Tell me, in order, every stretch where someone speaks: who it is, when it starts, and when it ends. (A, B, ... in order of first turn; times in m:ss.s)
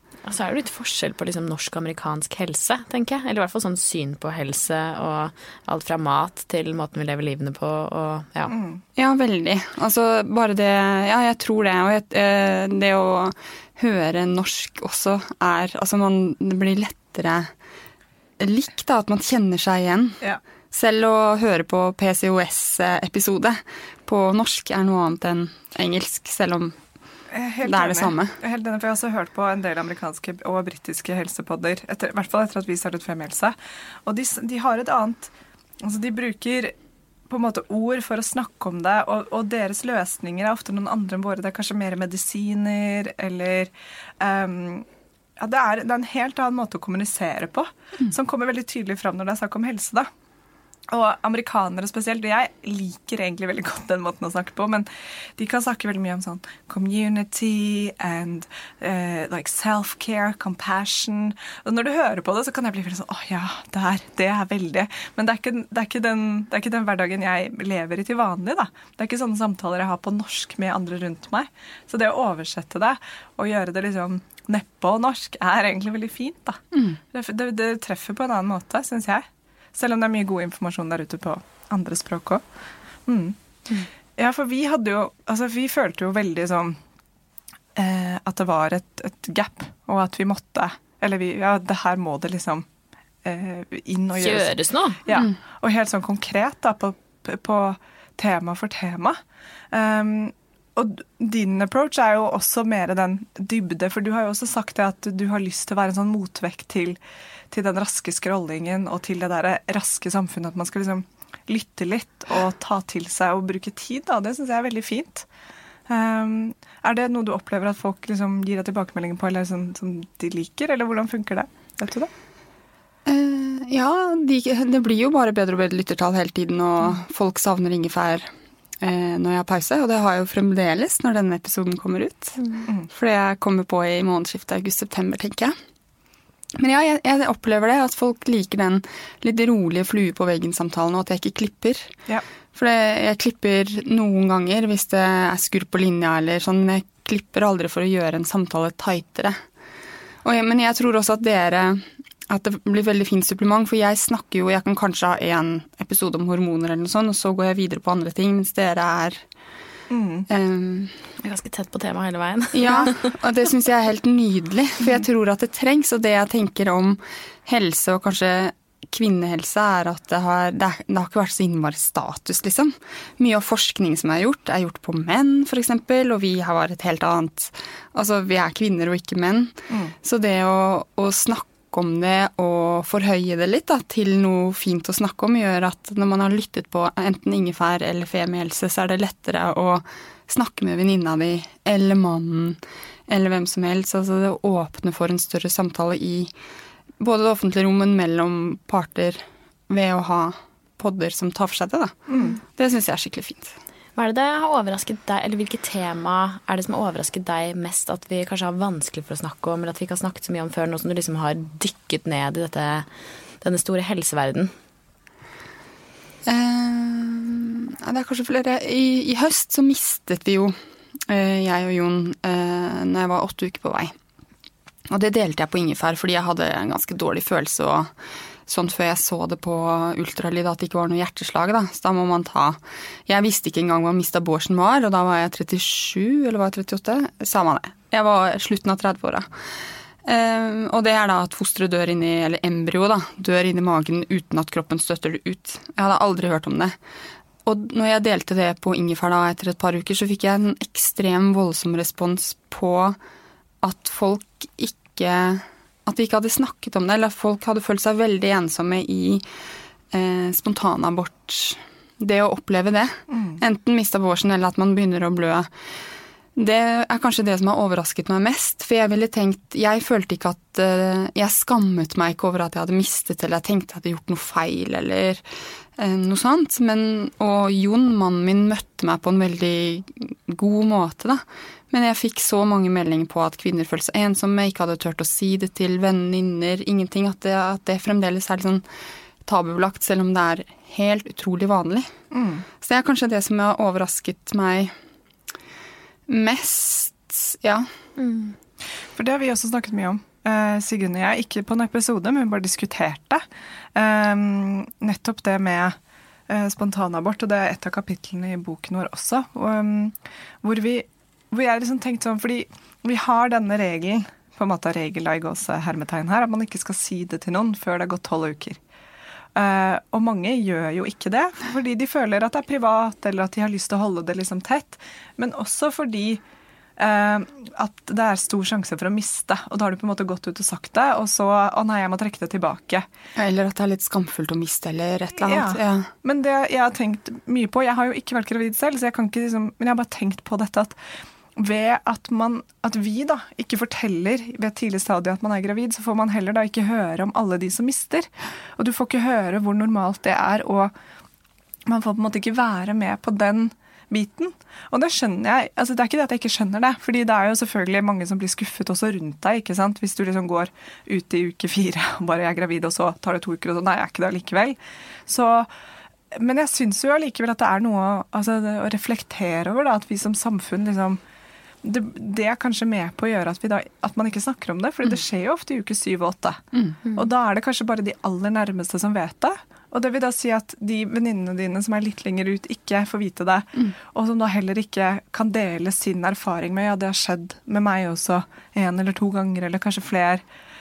0:00.2-0:08.5 A
0:08.5-0:08.8 B
0:09.0-0:17.5 C
0:18.4-0:26.7 C
0:27.3-0:36.7 B
0:27.6-0:28.3 C
0:37.3-0:44.9 B
0:45.4-0:50.1 B
0:50.9-1:22.4 B
1:23.1-1:23.4 B
1:24.2-1:26.8 B
1:27.8-1:32.6 B
1:33.2-1:39.2 B
1:34.2-1:35.0 A
1:39.7-1:47.0 B
1:47.5-1:55.2 B
1:55.9-2:02.1 B
2:03.0-2:08.3 C
2:08.8-2:15.5 C
2:12.4-2:12.6 A
2:16.6-2:21.9 C
2:22.5-2:29.4 C
2:30.2-2:39.2 C
2:39.9-2:40.3 B
2:40.3-2:40.9 C
2:41.2-2:43.1 A
2:42.5-3:16.3 C
3:17.0-3:23.5 C
3:22.1-3:22.3 B
3:24.0-3:32.8 A
3:33.4-3:34.5 A
3:36.2-3:40.6 C
3:41.1-3:43.9 C
3:44.9-3:47.9 C
3:48.5-3:59.2 C
4:00.0-4:06.8 C
4:07.4-4:13.0 C
4:13.6-4:19.2 C
4:19.9-4:25.5 C
4:23.1-4:23.4 B
4:26.4-4:35.2 C
4:35.8-4:48.6 C
4:49.2-4:51.9 C
4:52.1-4:52.4 B
4:52.6-4:54.7 C
4:56.1-4:57.7 C
4:58.0-4:58.3 A
4:59.0-5:05.8 B
5:06.3-5:18.6 B
5:19.3-5:26.2 B
5:26.8-5:32.8 B
5:33.2-5:35.9 C
5:35.2-5:40.8 B
5:41.4-5:50.7 B
5:51.6-6:05.5 B
6:06.1-6:11.0 B
6:11.6-6:16.4 B
6:17.0-6:30.2 B